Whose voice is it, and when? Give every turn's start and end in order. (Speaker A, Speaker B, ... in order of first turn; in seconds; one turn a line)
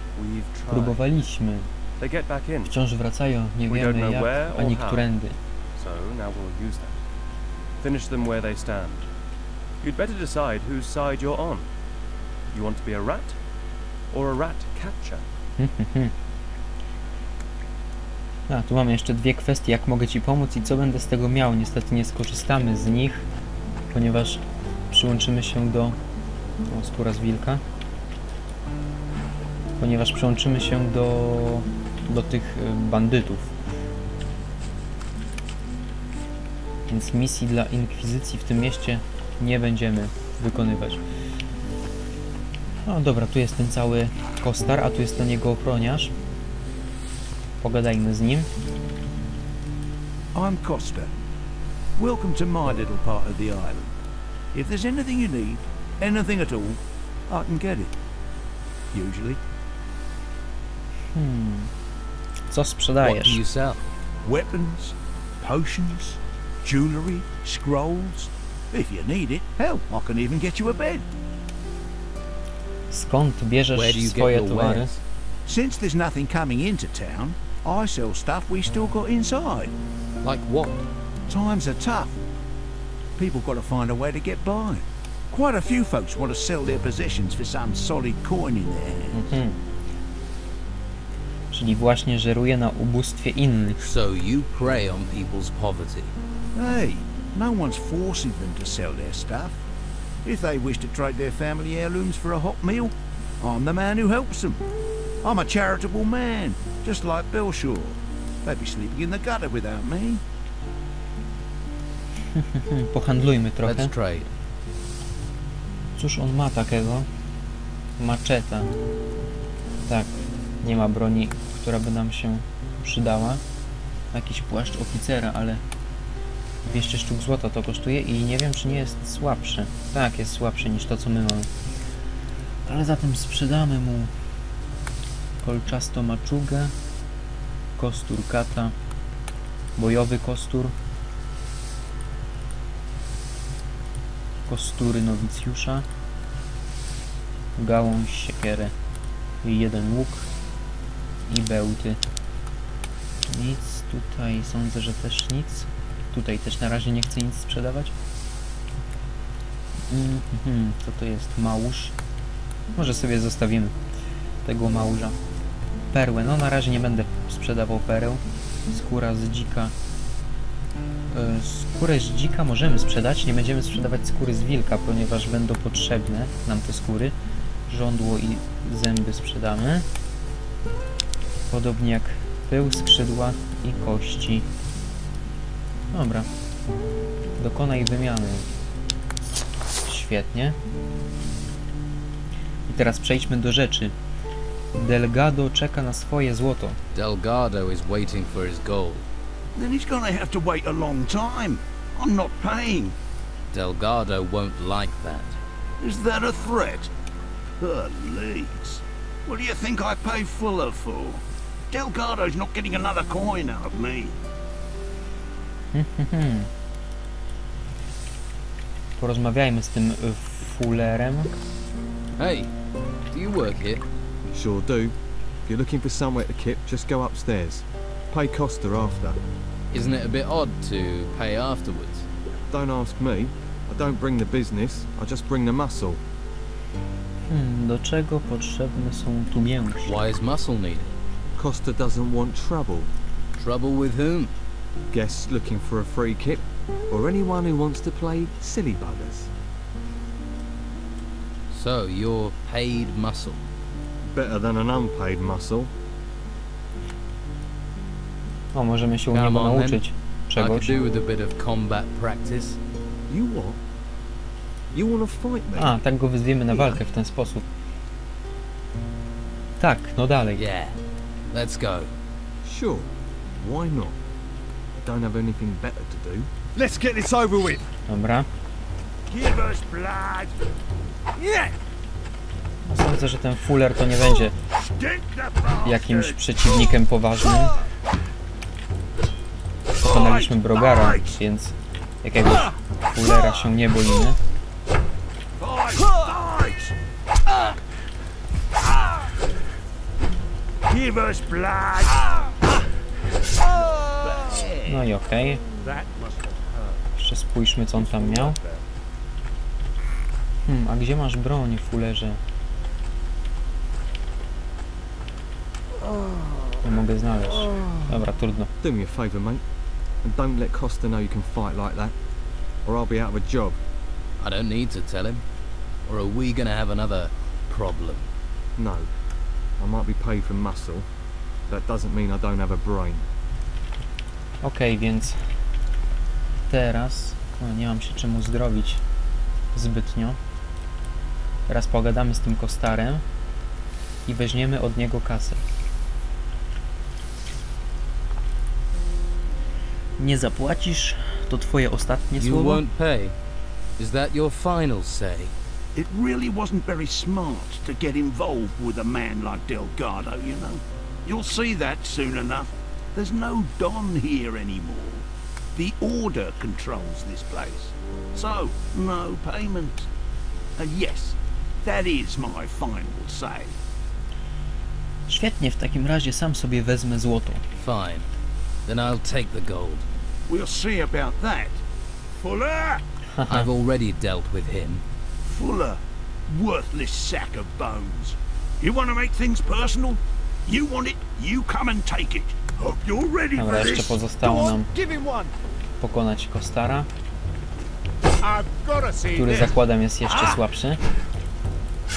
Speaker A: 0.1-1.0
Speaker B: 0.7-1.7
Speaker A: 2.0-2.7
Speaker B: 2.7-5.4
Speaker A: 3.7-5.1
Speaker A: 5.8-7.0
Speaker A: 7.8-9.1
Speaker A: 9.8-11.7
Speaker A: 12.5-13.4
Speaker A: 14.1-15.2
Speaker B: 15.6-16.1
Speaker B: 18.5-23.3
Speaker B: 23.9-26.0
Speaker B: 26.7-27.6
Speaker B: 29.8-33.5
Speaker B: 36.9-41.0
Speaker B: 42.9-46.1
Speaker B: 47.6-48.5
Speaker C: 50.3-51.1
Speaker C: 52.0-54.0
Speaker C: 54.5-58.0
Speaker C: 58.9-59.4
Speaker B: 61.1-61.7
Speaker B: 62.5-63.4
Speaker D: 63.0-63.9
Speaker C: 64.2-71.0
Speaker B: 72.9-74.9
Speaker D: 73.7-75.0
Speaker C: 75.5-79.7
Speaker D: 80.2-80.8
Speaker C: 81.3-82.2
Speaker C: 83.2-89.3
Speaker B: 89.1-89.6
Speaker B: 91.5-93.8
Speaker D: 93.8-96.1
Speaker C: 96.5-99.6
Speaker C: 100.2-104.6
Speaker C: 105.2-110.2
Speaker B: 112.3-113.9
Speaker D: 113.6-114.3
Speaker B: 116.0-117.1
Speaker B: 118.0-118.7
Speaker B: 120.6-123.4
Speaker B: 124.1-125.6
Speaker B: 126.7-131.5
Speaker B: 132.7-134.1
Speaker B: 135.4-136.7
Speaker B: 137.8-138.7
Speaker B: 139.8-140.7
Speaker B: 144.5-145.9
Speaker B: 147.6-148.7
Speaker B: 149.4-150.3
Speaker B: 151.3-152.0
Speaker B: 153.3-157.9
Speaker B: 159.9-161.9
Speaker B: 162.8-163.8
Speaker B: 164.4-165.2
Speaker B: 165.9-169.7
Speaker B: 171.1-177.1
Speaker B: 177.7-179.9
Speaker B: 181.5-184.5
Speaker B: 185.9-186.3
Speaker B: 187.4-188.4
Speaker B: 189.9-190.6
Speaker B: 192.7-193.9
Speaker B: 194.8-196.8
Speaker D: 196.9-199.0
Speaker C: 199.6-202.9
Speaker D: 203.5-205.4
Speaker C: 205.8-206.9
Speaker C: 207.6-214.2
Speaker B: 215.7-216.5
Speaker B: 219.0-221.3
Speaker D: 222.2-222.5
Speaker D: 223.1-223.8
Speaker E: 224.3-224.9
Speaker E: 225.5-229.2
Speaker D: 229.7-232.1
Speaker E: 232.5-236.0
Speaker B: 237.3-240.0
Speaker D: 239.9-240.9
Speaker E: 241.4-242.9
Speaker D: 243.4-244.3
Speaker E: 244.9-249.3
Speaker D: 251.5-253.4
Speaker E: 254.1-255.7
Speaker B: 258.5-260.8
Speaker D: 259.1-262.6
Speaker E: 263.1-263.6
Speaker E: 264.7-265.8
Speaker B: 265.6-267.4
Speaker B: 269.6-270.4
Speaker D: 270.4-270.8
Speaker D: 271.3-271.9
Speaker E: 272.4-274.0
Speaker E: 274.8-276.3
Speaker E: 277.1-277.5
Speaker B: 277.9-278.3
Speaker C: 279.1-280.3
Speaker B: 282.7-284.4
Speaker C: 284.7-286.2
Speaker B: 285.6-287.6
Speaker C: 289.8-291.1
Speaker B: 289.8-294.2
Speaker C: 295.4-296.7
Speaker C: 300.7-302.2
Speaker C: 303.9-304.8
Speaker B: 304.7-305.4
Speaker C: 305.6-306.6
Speaker B: 307.0-308.4
Speaker B: 310.5-312.2
Speaker B: 316.6-318.5
Speaker E: 318.6-319.4
Speaker E: 320.0-321.9
Speaker E: 322.6-323.6
Speaker D: 324.2-325.2
Speaker D: 325.9-328.1
Speaker E: 328.6-328.9
Speaker E: 329.6-330.9
Speaker E: 331.5-333.0
Speaker B: 334.4-335.2
Speaker B: 336.5-338.8
Speaker B: 339.5-340.2
Speaker B: 341.5-343.0
Speaker B: 344.1-345.4
Speaker B: 350.0-352.6
Speaker D: 352.2-353.1
Speaker D: 353.8-355.3
Speaker C: 355.8-369.9
Speaker C: 370.6-373.6
Speaker B: 375.1-377.4
Speaker D: 377.6-378.1
Speaker D: 378.7-379.9
Speaker C: 380.3-381.6
Speaker C: 382.2-382.8
Speaker B: 383.2-383.5
Speaker D: 383.3-384.8
Speaker C: 385.2-395.3
Speaker B: 393.4-394.7
Speaker B: 395.8-396.9
Speaker C: 398.3-399.5
Speaker B: 399.1-400.8